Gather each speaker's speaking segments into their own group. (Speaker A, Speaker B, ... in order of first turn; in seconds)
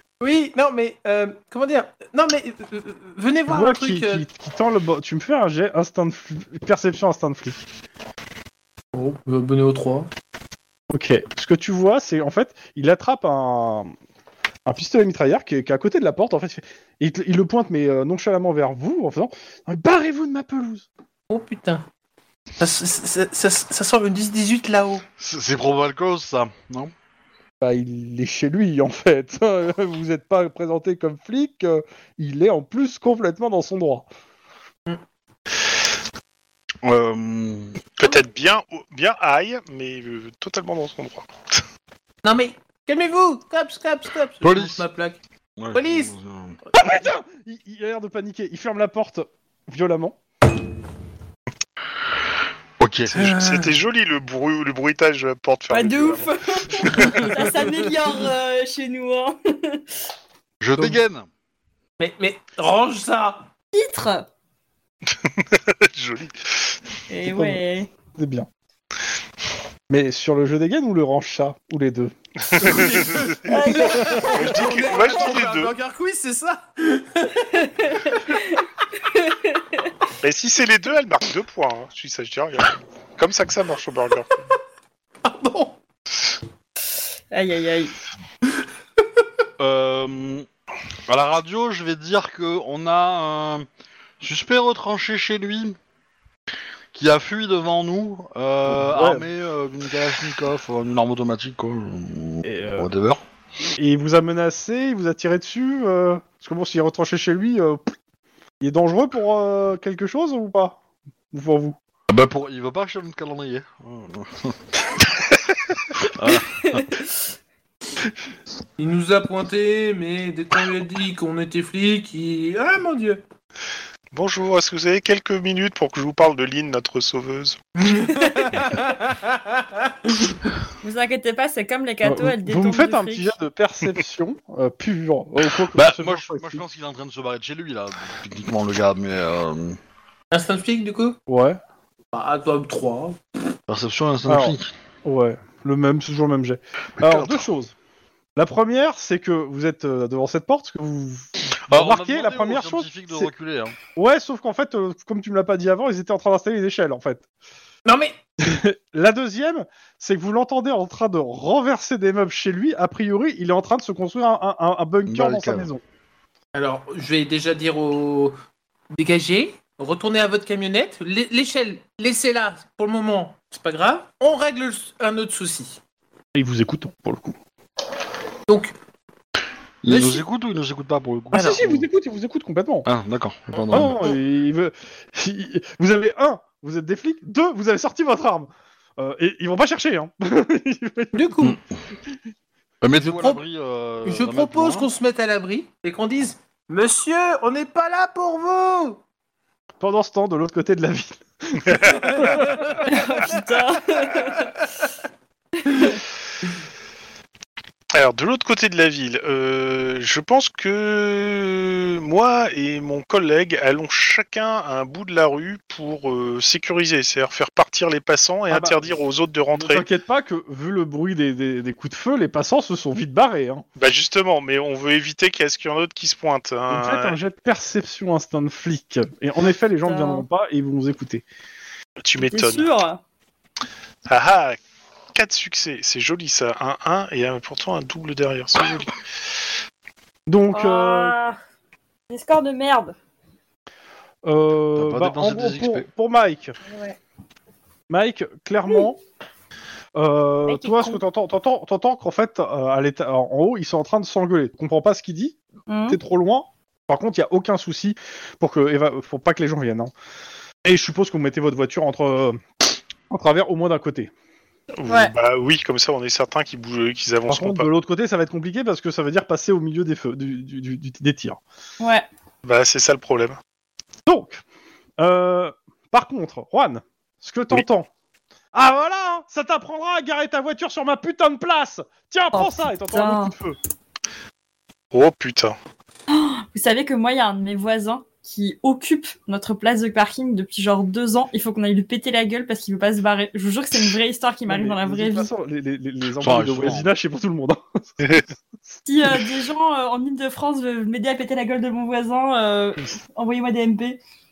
Speaker A: 0.2-4.2, 8.9-10.1, 21.3-21.8, 22.6-25.0, 42.2-45.2, 45.7-46.1, 53.1-53.7, 56.9-57.7, 62.0-63.5, 72.6-77.5, 85.2-85.8, 118.8-123.2, 127.8-130.3, 140.3-141.2, 142.1-143.2, 157.8-158.2, 166.5-168.4, 168.9-175.8, 178.5-178.7, 179.9-180.2, 181.3-181.7, 191.1-191.6, 192.9-193.4, 194.0-199.0, 201.9-203.3
Speaker B: 3.5-7.6, 10.9-13.9, 14.7-20.9, 27.6-34.1, 46.8-50.2, 67.2-67.6, 68.1-68.5, 69.9-72.1, 98.7-99.2, 102.4-102.9, 103.8-107.9, 108.6-110.8, 111.3-111.8, 132.0-136.6, 141.3-141.6, 144.3-147.7, 148.3-153.3, 153.9-157.2, 158.4-165.8, 176.3-177.3, 181.3-182.9, 183.7-191.2, 199.8-202.7, 218.5-218.8, 219.5-223.6, 226.7-231.2, 240.3-241.2, 244.2-246.6, 247.9-249.0, 249.9-255.3, 255.9-259.9, 260.6-262.4, 263.1-264.1, 267.3-271.4, 274.1-274.4, 275.0-277.9, 278.5-283.6, 294.5-298.2
Speaker C: 25.2-26.9, 36.8-37.8, 44.4-44.9, 45.6-46.6, 52.8-53.3, 60.6-61.3, 89.6-90.5, 91.1-93.7, 94.2-95.8, 96.9-103.2, 112.1-114.6, 116.0-116.8, 135.6-139.8, 143.7-144.7, 147.0-147.5, 151.7-153.8, 165.1-165.7, 179.8-181.9, 182.8-184.1, 192.8-194.9, 244.7-245.9, 296.2-296.9
Speaker D: 38.0-41.6, 53.1-56.3, 65.2-66.7, 72.5-73.3, 74.3-75.7, 80.2-84.5, 124.1-127.6, 207.9-219.8, 223.8-227.2, 232.0-232.7, 234.1-234.6, 235.1-238.9, 264.8-267.7, 272.4-273.4, 284.9-285.6
Speaker E: 55.7-59.8, 63.7-64.3, 67.1-67.9, 73.4-74.8, 77.4-79.9, 87.3-88.0, 116.6-116.9, 128.1-128.6, 130.8-133.3, 202.8-204.5, 205.6-206.0, 229.8-230.2, 232.2-233.0, 240.5-241.4, 242.1-242.9, 246.7-246.9, 250.5-251.0, 255.7-256.0, 264.9-265.1, 271.8-272.1, 282.3-283.3, 286.1-295.3, 298.9-304.0